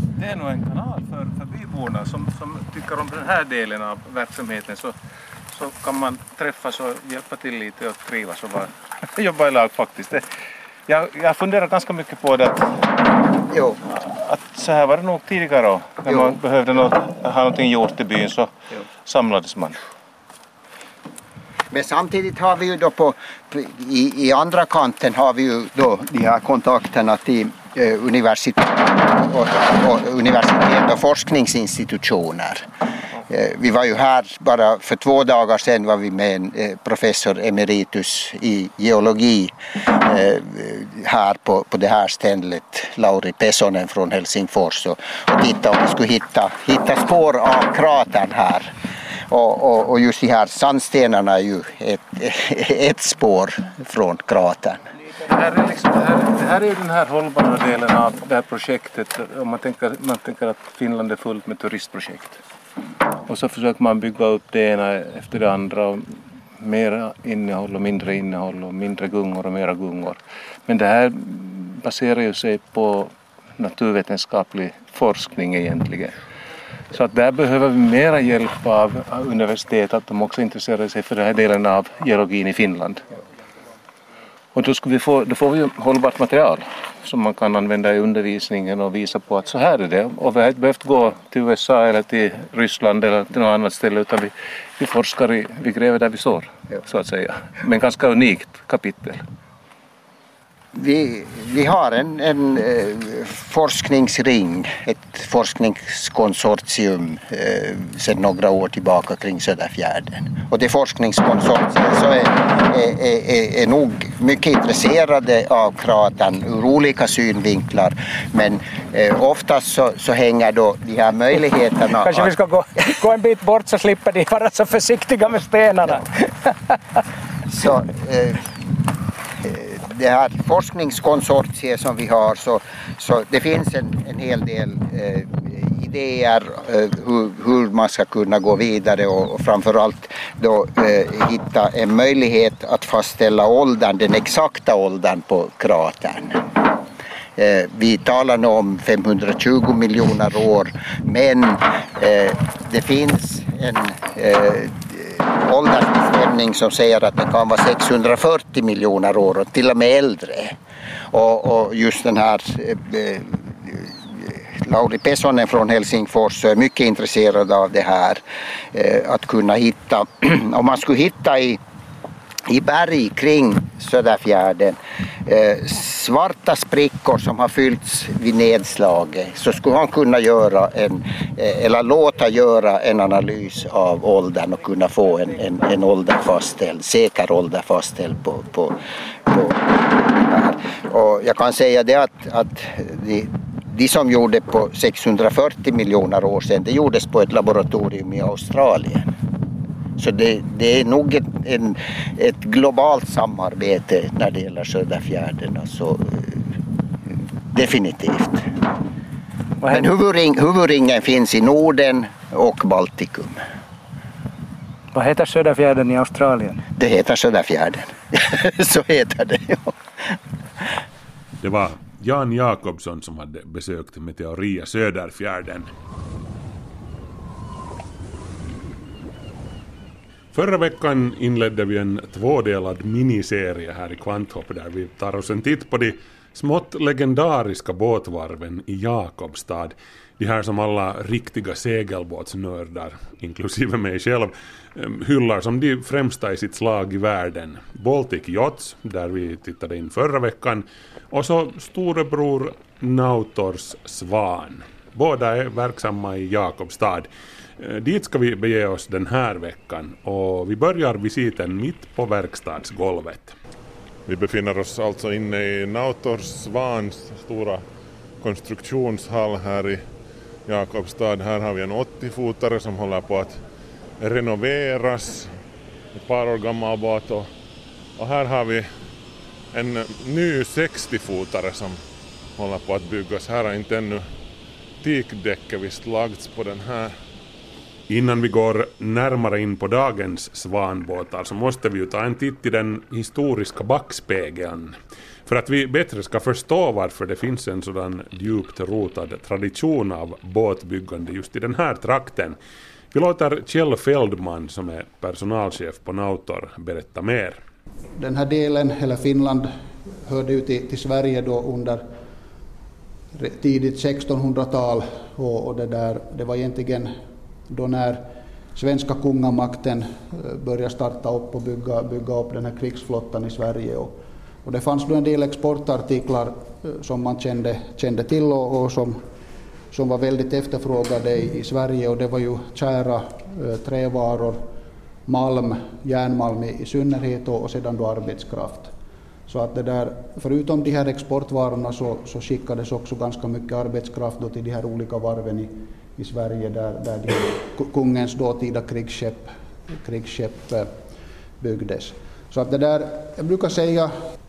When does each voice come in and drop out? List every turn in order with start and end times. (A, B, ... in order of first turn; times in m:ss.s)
0:00.2-0:05.0 A
0:05.5-0:10.3 A
0:10.9-0:13.0 A
0:13.5-0:13.8 B
0:14.1-0:19.8 A
0:16.1-0:16.4 B
0:21.7-0:32.7 B
0:33.3-0:48.7 B
0:49.3-0:54.8 B
0:55.2-1:02.4 A
1:03.3-1:16.2 A
1:16.9-1:23.2 A
1:24.5-1:39.2 A
1:40.8-2:02.3 B
2:02.0-2:06.5 C
2:07.5-2:08.5 B
2:09.4-2:26.5 B
2:27.4-2:40.6 B
2:41.1-2:48.2 B
2:48.7-2:51.6 B
2:52.5-3:19.1 B
3:20.0-3:26.4 B
3:27.5-3:28.5 B
3:29.6-3:29.9 C
3:29.7-3:33.4 B
3:34.9-3:36.6 C
3:36.8-3:39.8 B
3:41.4-3:45.7 D
3:50.3-4:17.1 D
4:17.6-4:23.4 D
4:24.1-4:27.6 E
4:28.2-4:29.8 E
4:30.5-4:33.4 E
4:34.0-4:35.3 E
4:35.9-4:37.3 E
4:38.0-4:38.7 E
4:39.5-4:41.8 E
4:42.4-4:44.1 E
4:44.8-4:47.0 E
4:47.9-4:54.8 D
4:55.3-5:02.4 D
5:02.9-5:07.4 D
5:08.0-5:09.5 F
5:10.0-5:11.8 F
5:13.1-5:17.0 F
5:17.5-5:29.0 F
5:29.7-5:34.4 F
5:35.1-5:38.7 F
5:39.3-5:50.7 F
5:51.4-5:53.9 F